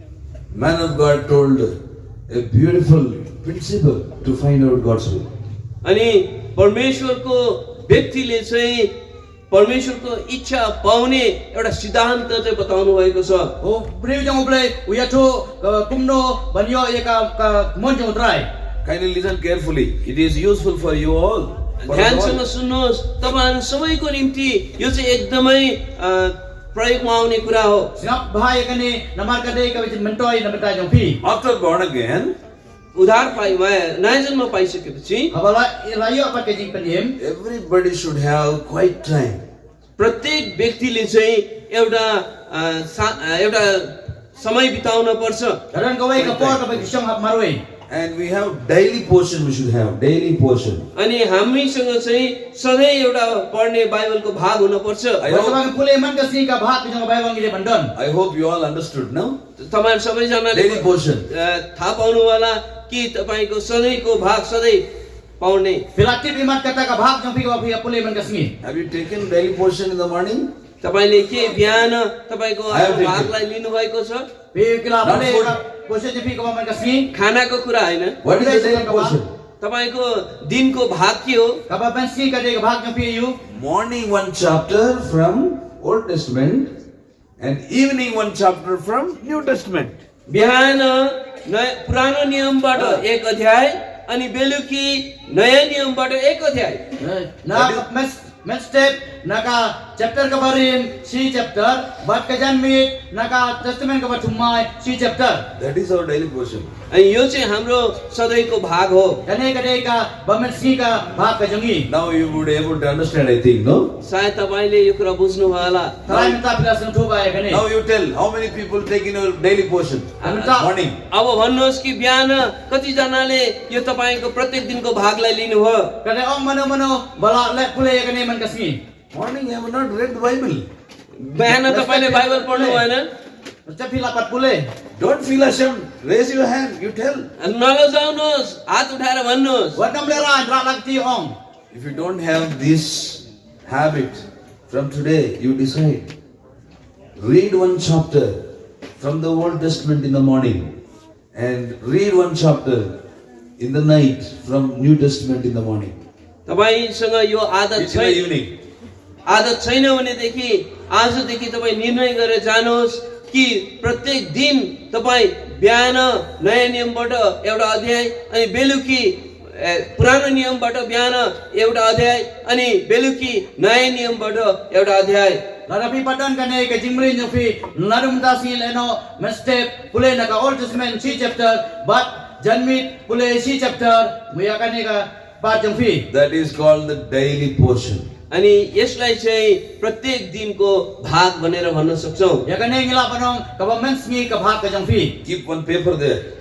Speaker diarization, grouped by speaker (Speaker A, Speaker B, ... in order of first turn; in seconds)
Speaker A: 0.5-1.7, 2.3-5.3, 18.8-22.4, 31.2-32.3, 37.2-39.4, 46.2-46.8, 47.9-50.9, 55.2-55.6, 57.9-59.4, 60.5-61.3, 68.6-70.5, 72.7-73.3, 75.0-75.5, 78.2-79.3, 83.5-86.7, 87.4-90.0, 92.7-93.0, 97.5-97.8, 105.5-106.7, 111.9-113.9, 117.5-121.0, 129.1-130.7, 135.0-137.3, 141.7-146.1, 147.2-148.4, 149.0-150.7, 151.3-152.9, 153.6-155.9, 157.8-158.5, 186.1-188.1, 195.2-196.2
Speaker B: 5.8-8.9, 9.5-13.5, 21.8-27.9, 32.9-35.3, 40.0-45.6, 50.9-55.3, 59.6-64.8, 65.4-65.8, 70.8-74.2, 77.1-78.2, 79.6-81.6, 90.3-96.8, 106.9-109.2, 114.0-116.3, 120.2-120.5, 121.1-125.9, 131.2-133.1, 137.4-139.8, 156.5-158.2, 159.2-175.4, 188.3-192.4
Speaker C: 13.6-18.4, 28.0-31.2, 35.3-37.1, 45.7-47.6, 55.2-57.9, 65.9-68.5, 74.5-77.1, 78.2-79.2, 81.7-83.4, 97.0-105.4, 109.2-111.9, 116.1-117.6, 120.2-120.7, 126.0-128.8, 131.4-132.8, 133.7-134.6, 139.8-141.3, 175.7-186.0, 192.5-195.1